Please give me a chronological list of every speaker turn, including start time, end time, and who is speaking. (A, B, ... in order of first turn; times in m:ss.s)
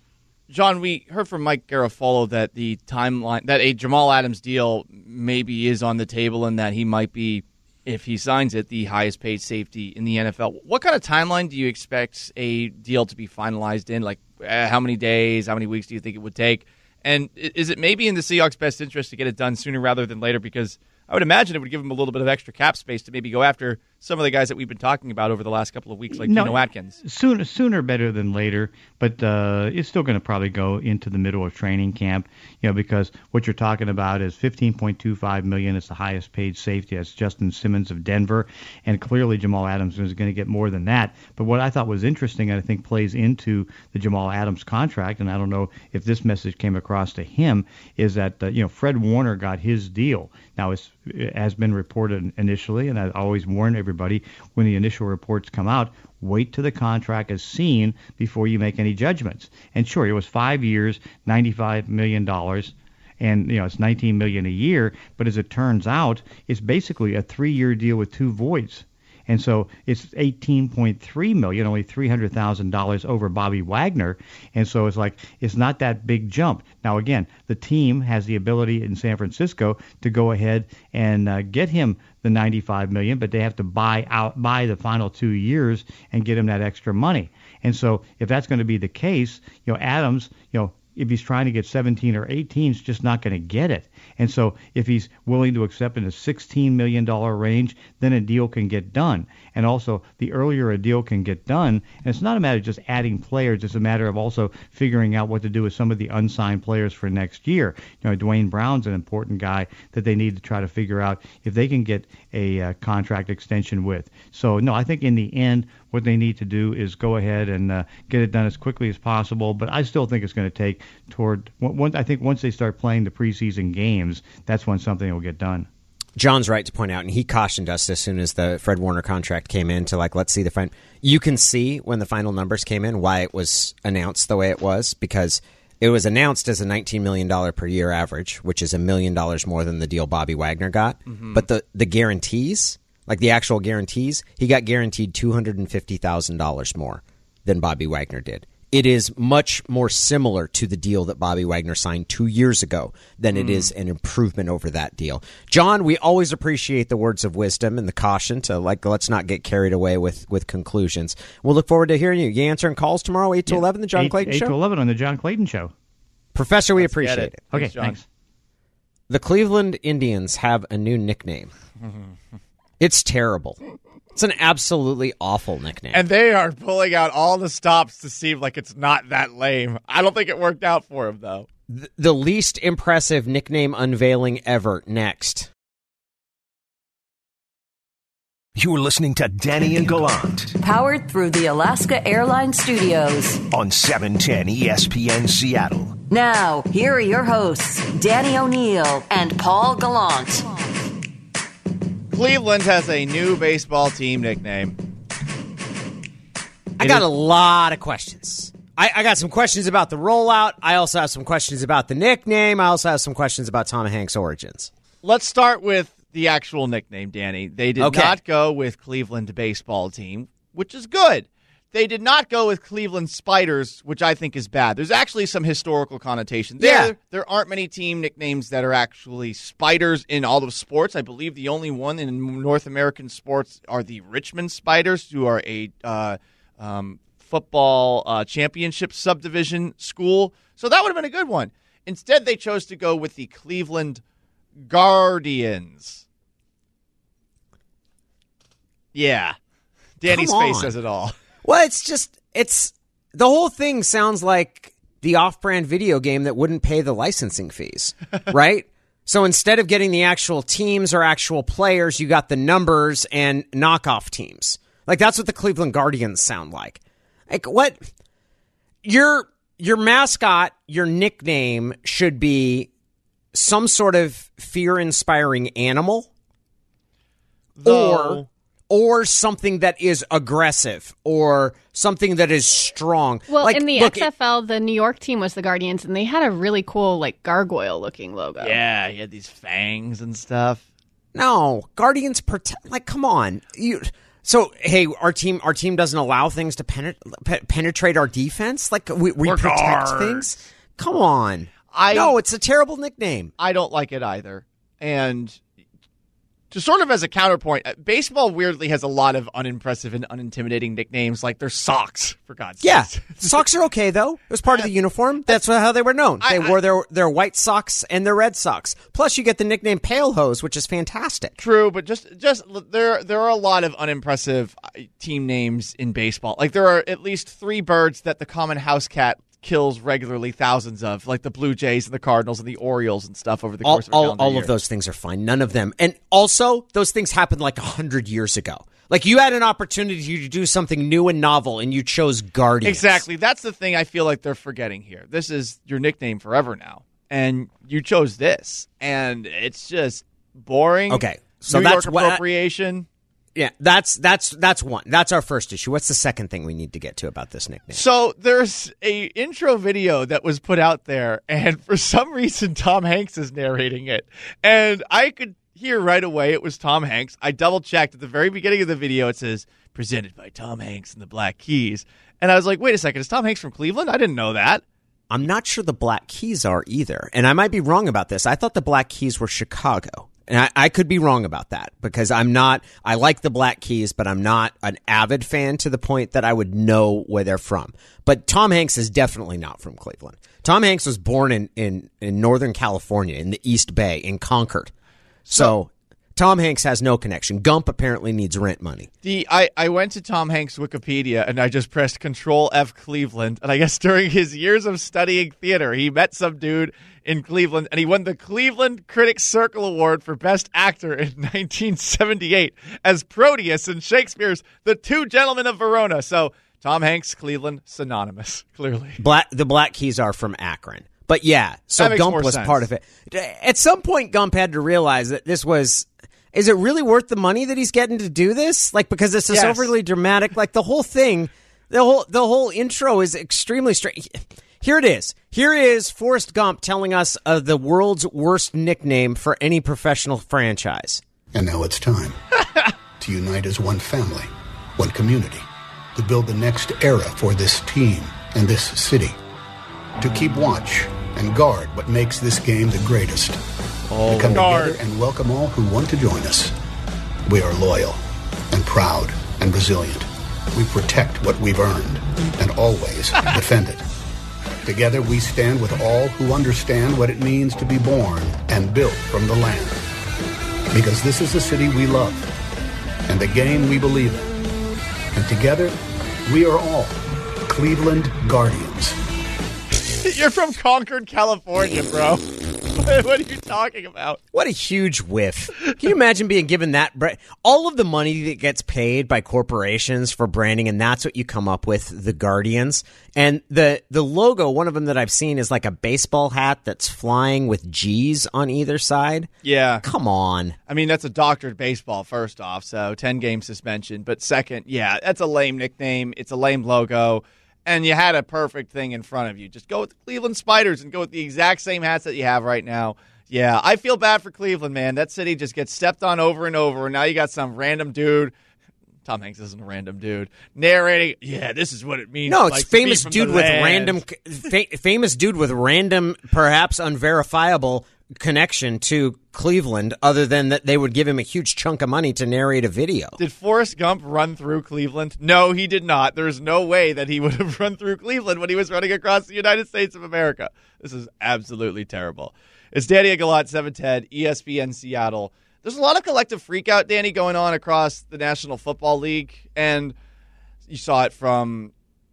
0:00.5-0:27.0 A
0:26.2-2:05.7 B
2:06.2-2:44.5 C
2:21.1-2:21.4 A
2:33.3-2:33.7 A
2:43.5-2:45.7 B
2:46.3-2:47.4 C
2:46.8-2:48.0 A
2:47.5-2:48.0 B
2:49.1-2:51.5 C
2:52.8-2:53.6 C
2:54.1-2:56.0 C
2:55.9-3:01.5 A
3:01.7-3:05.5 C
3:08.6-3:10.5 D
3:10.6-3:13.4 E
3:13.5-3:15.9 D
3:16.1-3:20.4 E
3:22.1-3:24.7 A
3:26.8-3:34.7 C
3:35.0-4:04.0 A
3:37.8-3:38.2 C
3:46.6-3:46.9 C
4:04.7-4:06.0 A
4:08.9-4:09.4 A
4:10.0-4:11.1 A
4:10.0-4:10.7 C
4:11.4-4:27.8 C
4:28.8-4:32.7 C
4:33.3-4:36.1 C
4:37.6-4:38.3 A
4:37.6-4:44.1 C
4:43.3-4:48.6 F
4:48.4-4:50.6 A
4:51.1-5:03.3 C
4:59.2-5:00.3 A
5:01.7-5:02.1 A
5:03.4-5:05.4 A
5:06.5-5:13.4 A
5:12.6-5:21.4 C
5:16.2-5:16.5 A
5:21.4-5:34.5 A
5:33.6-5:43.0 C
5:42.6-5:52.8 A
5:50.9-5:52.2 C
5:53.3-5:57.8 C
5:57.7-6:14.6 A
6:15.1-6:34.7 C
6:35.3-6:35.5 A
6:35.3-6:38.9 C
6:39.0-6:59.0 A
6:59.0-7:21.0 C
7:01.8-7:02.6 A
7:09.3-7:09.7 A
7:21.3-7:22.2 G
7:23.0-7:29.2 G
7:30.0-7:33.4 G
7:33.9-7:34.8 A
7:34.0-7:36.5 G
7:37.3-7:38.0 G
7:38.5-7:43.8 G
7:44.6-7:49.8 G
7:50.7-7:52.3 G
7:53.1-7:54.3 G
7:55.1-7:59.0 G
8:00.0-8:04.2 A
8:04.3-8:19.3 C
8:19.4-8:19.8 A
8:19.8-8:20.6 C
8:20.7-8:38.3 A
8:39.0-8:44.0 A
8:42.3-8:53.2 C
8:53.2-9:09.9 A
9:10.7-9:11.7 A